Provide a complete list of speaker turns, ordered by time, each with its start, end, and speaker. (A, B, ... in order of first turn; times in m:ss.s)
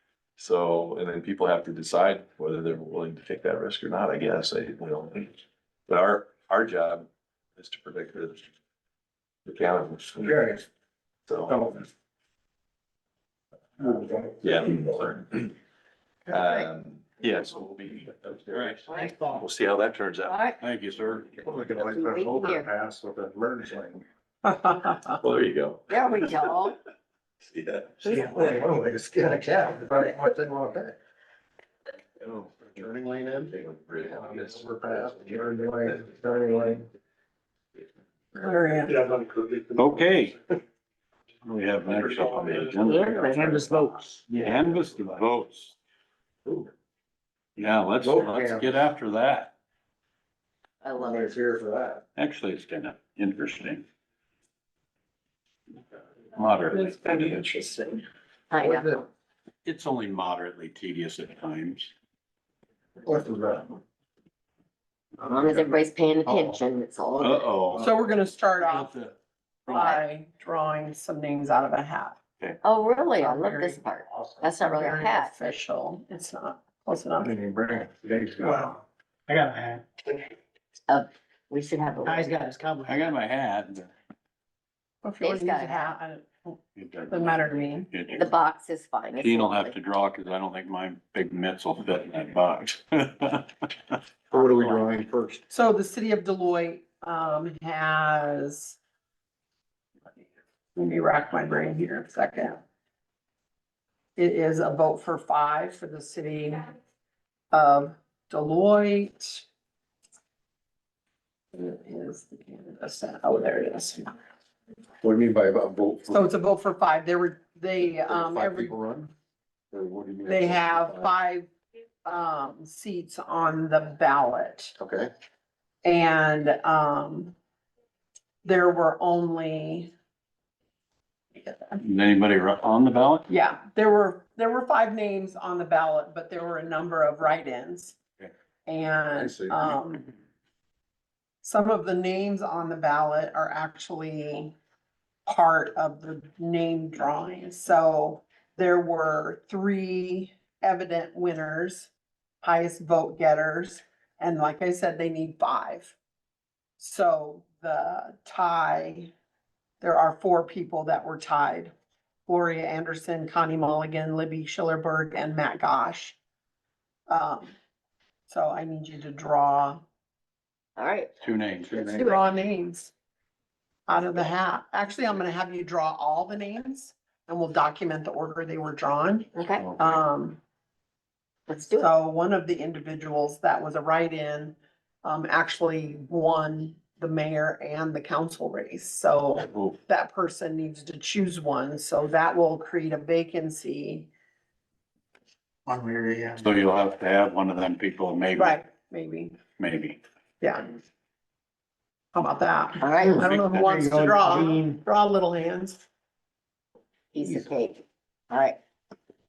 0:00.4-0:08.5 A
0:09.4-0:10.4 A
0:10.2-0:10.6 B
0:11.3-0:11.6 A
0:13.8-0:14.1 B
0:14.4-0:15.5 A
0:16.3-0:16.7 C
0:16.3-0:20.4 A
0:18.5-0:18.9 D
0:18.9-0:19.4 C
0:20.2-0:20.6 C
0:20.6-0:21.4 D
0:21.4-0:24.0 B
0:21.8-0:22.7 C
0:24.4-0:25.2 E
0:25.2-0:26.4 A
0:25.9-0:26.8 C
0:27.5-0:28.2 A
0:28.0-0:28.4 C
0:28.1-0:31.0 B
0:32.2-0:32.6 A
0:32.7-0:36.8 B
0:33.5-0:34.6 A
0:38.3-0:39.1 E
0:39.1-0:39.6 B
0:39.7-0:40.4 D
0:41.4-0:43.7 D
0:41.8-0:42.9 A
0:42.8-0:43.6 C
0:43.2-0:44.2 F
0:44.2-0:45.8 D
0:47.6-0:49.5 D
0:48.0-0:48.7 B
0:50.8-0:51.3 C
0:51.0-0:52.0 B
0:52.2-0:53.8 D
0:56.3-0:57.4 D
0:56.7-0:58.0 E
0:58.5-0:58.9 C
0:58.6-0:59.0 B
0:59.6-1:01.9 D
1:03.0-1:03.8 B
1:05.2-1:07.4 C
1:07.2-1:07.9 D
1:07.8-1:08.9 E
1:08.6-1:09.1 D
1:09.7-1:12.2 E
1:09.7-1:10.0 C
1:12.6-1:15.4 C
1:13.3-1:13.8 F
1:14.4-1:17.3 E
1:17.2-1:18.7 B
1:18.4-1:18.8 F
1:19.3-1:19.8 F
1:20.9-1:22.3 C
1:22.0-1:23.0 F
1:22.8-1:23.9 D
1:25.0-1:26.6 E
1:25.2-1:25.9 C
1:26.8-1:28.3 D
1:27.1-1:27.9 E
1:28.1-1:29.8 C
1:29.2-1:33.5 D
1:34.3-1:35.4 B
1:34.3-1:34.8 D
1:35.5-1:38.8 E
1:40.8-1:42.6 E
1:44.2-1:46.7 E
1:47.5-1:49.4 E
1:51.5-1:54.1 E
1:55.0-1:56.2 B
1:56.1-1:58.8 E
1:57.9-1:59.1 B
1:59.7-2:01.1 B
2:00.2-2:01.5 E
2:02.0-2:04.7 E
2:04.8-2:05.1 B
2:05.8-2:07.3 E
2:08.4-2:09.9 E
2:11.8-2:13.3 D
2:13.3-2:18.0 E
2:18.7-2:20.1 E
2:19.1-2:19.8 B
2:21.4-2:24.5 E
2:25.2-2:31.9 E
2:32.4-2:35.9 E
2:36.8-2:39.1 E
2:39.8-2:41.7 E
2:42.3-2:46.2 E
2:47.1-2:47.5 E
2:48.3-2:49.8 E
2:50.8-2:51.1 C
2:51.2-2:52.0 D
2:51.7-2:52.2 C
2:52.0-2:52.9 E
2:53.9-3:00.4 E
2:59.4-2:59.7 C
3:01.5-3:01.9 C
3:01.7-3:14.1 E
3:09.4-3:09.7 D
3:15.7-3:16.5 F
3:16.4-3:18.6 D
3:18.3-3:19.4 E
3:19.6-3:20.0 D
3:20.4-3:20.8 E
3:22.1-3:25.8 E
3:22.8-3:23.2 C
3:23.0-3:24.8 F
3:23.2-3:23.8 D
3:27.1-3:28.6 C